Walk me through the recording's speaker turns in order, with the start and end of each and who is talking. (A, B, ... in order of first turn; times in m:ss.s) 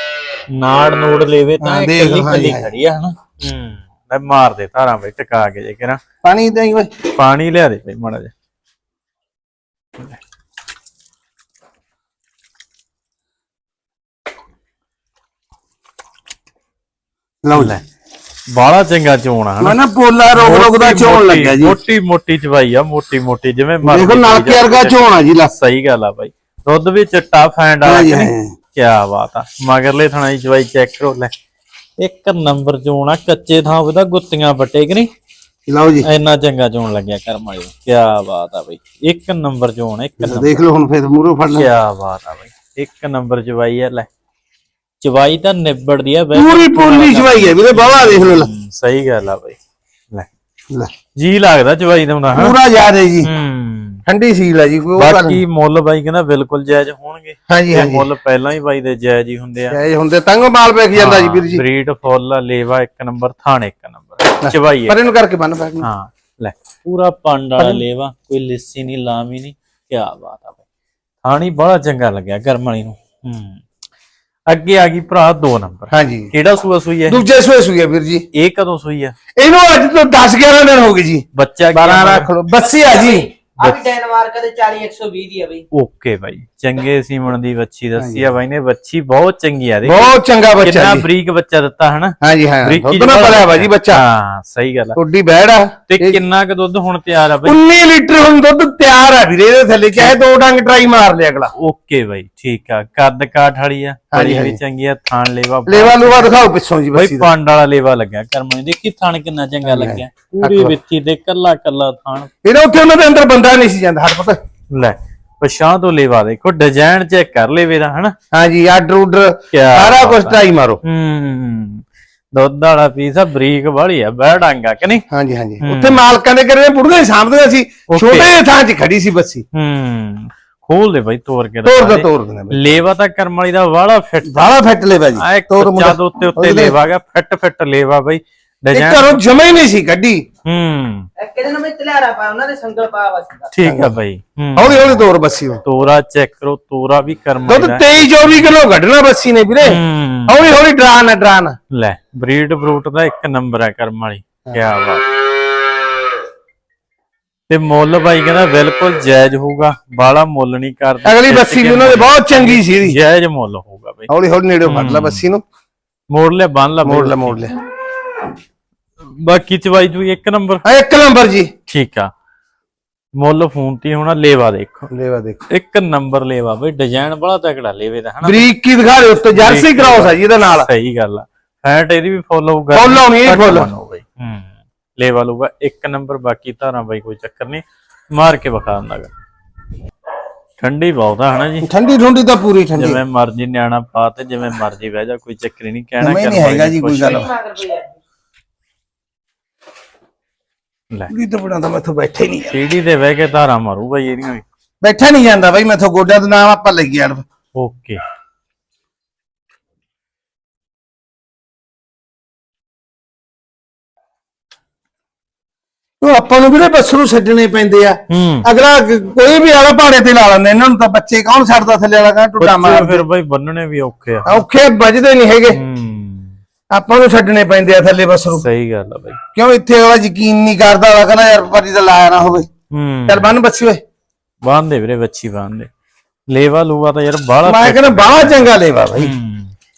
0:00.5-0:06.0 A
0:01.6-0:02.7 B
0:06.2-0:06.9 B
0:07.1-0:08.3 A
0:17.4-0:17.8 B
0:17.5-0:17.8 A
0:18.5-0:19.8 A
0:19.6-0:21.8 B
0:20.3-0:31.3 A
0:23.8-0:25.5 B
0:27.8-0:28.5 B
0:32.0-0:35.1 A
0:35.7-0:36.1 B
0:36.0-0:40.6 A
0:40.2-0:41.7 B
0:41.5-0:44.1 A
0:45.0-0:49.6 A
0:46.3-0:48.5 B
0:51.2-0:52.5 A
0:52.3-0:53.3 B
0:53.2-0:54.0 A
0:54.0-0:55.4 B
0:55.0-0:59.8 A
0:57.5-0:58.0 B
0:59.7-1:01.6 B
1:00.9-1:05.0 A
1:04.4-1:05.9 B
1:05.8-1:10.6 A
1:11.2-1:13.6 A
1:14.5-1:17.2 A
1:15.9-1:16.3 B
1:17.1-1:18.2 B
1:18.3-1:19.1 A
1:19.4-1:23.3 B
1:21.3-1:22.3 A
1:22.9-1:25.6 C
1:23.6-1:23.8 A
1:25.7-1:35.0 A
1:28.0-1:28.3 B
1:29.8-1:31.0 B
1:32.2-1:34.0 B
1:34.9-1:36.2 B
1:35.9-1:37.6 A
1:37.4-1:41.5 B
1:41.5-1:46.3 A
1:44.1-1:44.6 B
1:45.7-1:47.3 B
1:46.9-1:52.3 A
1:49.6-1:50.7 B
1:52.4-1:54.4 B
1:54.7-1:58.1 A
1:58.3-2:00.8 B
1:59.5-2:05.0 A
2:05.1-2:09.4 B
2:05.6-2:06.0 A
2:07.9-2:08.3 A
2:09.5-2:14.5 A
2:11.6-2:12.8 B
2:14.2-2:16.8 B
2:15.2-2:19.2 A
2:18.7-2:20.2 B
2:20.4-2:21.1 A
2:21.2-2:23.5 C
2:23.5-2:25.0 A
2:23.6-2:23.9 B
2:24.6-2:25.6 B
2:25.6-2:28.5 A
2:27.5-2:31.6 B
2:29.6-2:30.6 A
2:31.7-2:35.0 A
2:37.5-2:44.1 A
2:41.0-2:43.0 B
2:44.1-2:45.4 B
2:44.6-2:45.2 A
2:46.1-2:47.4 A
2:46.8-2:47.5 B
2:49.0-2:50.6 A
2:50.6-2:51.5 B
2:51.6-2:52.1 A
2:53.2-2:54.9 A
2:54.9-2:55.4 B
2:55.5-2:58.5 A
2:58.2-3:00.7 B
2:59.3-3:09.1 A
3:02.7-3:03.7 B
3:10.6-3:11.7 A
3:11.6-3:13.0 B
3:12.8-3:17.3 A
3:16.0-3:17.3 B
3:17.1-3:17.9 C
3:21.1-3:22.6 B
3:22.5-3:24.4 A
3:24.8-3:27.2 B
3:27.6-3:28.0 A
3:36.0-3:43.0 B
3:38.1-3:38.5 A
3:42.4-3:44.4 A
3:44.2-3:45.6 B
3:45.5-3:46.4 A
3:46.7-3:48.4 B
3:48.3-3:49.2 A
3:49.3-3:52.5 B
3:52.7-3:53.4 A
3:53.1-3:53.8 B
3:54.4-3:55.7 A
3:56.3-3:59.5 A
3:57.4-3:59.1 B